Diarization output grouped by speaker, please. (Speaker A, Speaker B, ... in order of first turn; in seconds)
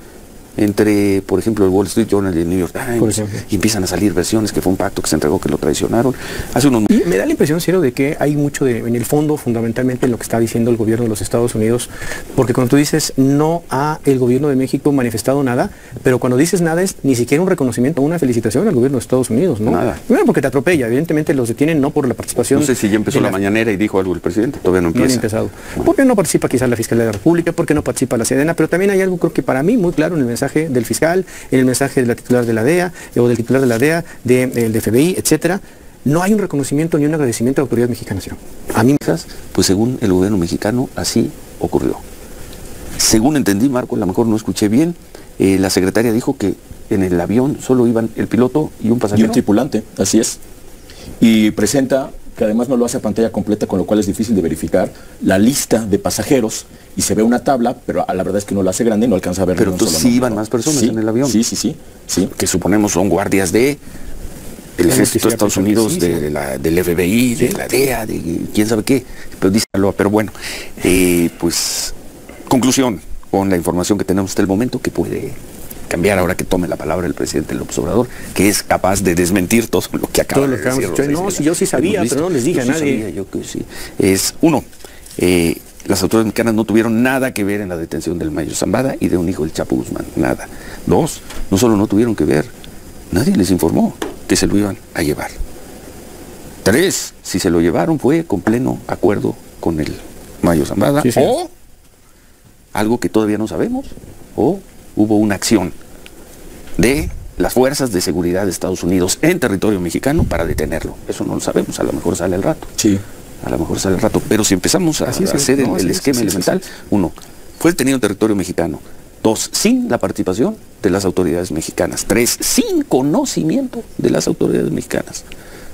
Speaker A: 0.6-6.9, 19.6-20.0, 22.5-25.2, 39.0-42.0, 43.0-49.4, 59.5-61.4, 62.3-63.8, 64.8-71.9, 72.5-75.4, 75.9-84.7, 85.2-92.5, 93.1-95.4, 96.6-101.5, 102.7-105.8, 106.8-112.7, 113.4-125.3
Speaker B: 3.0-3.4, 6.9-23.4, 24.9-39.0, 64.8-66.2, 80.3-83.0, 101.0-101.3
Speaker C: 49.1-50.4, 51.2-62.3, 112.8-113.0, 115.5-115.8